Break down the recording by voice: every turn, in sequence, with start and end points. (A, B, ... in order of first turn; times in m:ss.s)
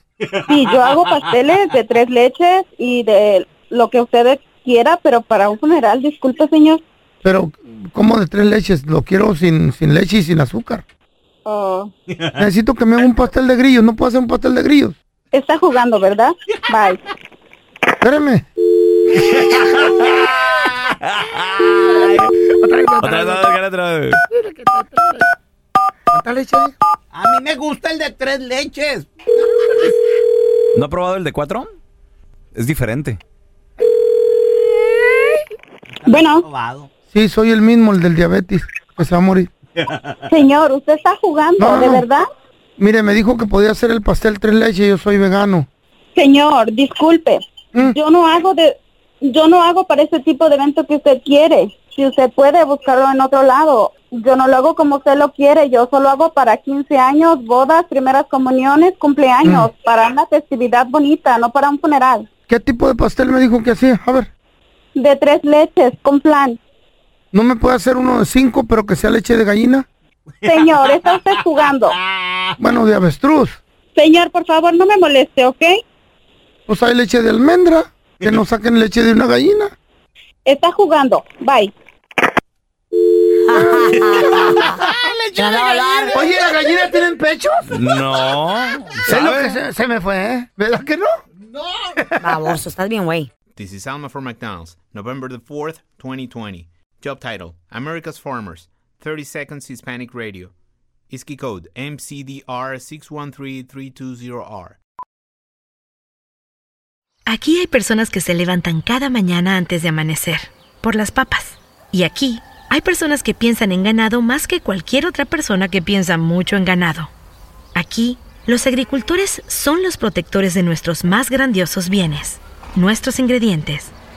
0:00.4-0:01.3 A
0:00.5-0:06.8 B
0:07.2-0:10.8 C
0:11.4-0:11.9 B
0:12.4-0:15.0 C
0:15.3-0:17.0 B
0:18.0-0:18.4 C
0:19.3-0:20.9 A
0:21.7-0:22.1 A
0:22.5-0:23.5 C
0:23.0-0:24.2 D
0:26.1-0:26.8 C
0:27.1-0:29.6 A
0:30.7-0:31.7 D
0:32.5-0:33.2 D
0:35.9-0:36.9 A
0:36.1-0:36.5 B
0:37.1-0:39.5 C
0:39.8-0:40.2 A
0:40.3-0:42.2 B
0:41.6-0:42.0 C
0:42.8-0:45.7 C
0:46.2-1:02.3 B
0:59.4-0:59.7 C
1:02.5-1:04.3 C
1:05.0-1:06.6 B
1:07.3-1:09.9 C
1:10.4-1:12.6 A
1:10.5-1:12.0 B
1:12.6-1:13.6 C
1:14.0-1:15.8 B
1:16.7-1:19.7 C
1:20.4-1:21.7 B
1:23.5-1:24.4 E
1:23.5-1:24.8 C
1:23.9-1:26.9 A
1:25.4-1:26.0 E
1:26.1-1:27.8 C
1:27.7-1:29.5 D
1:29.0-1:31.2 C
1:31.5-1:32.0 A
1:32.0-1:32.6 C
1:32.2-1:33.3 E
1:33.6-1:40.5 F
1:41.1-1:44.8 F
1:47.3-1:57.1 G
1:57.8-2:03.9 G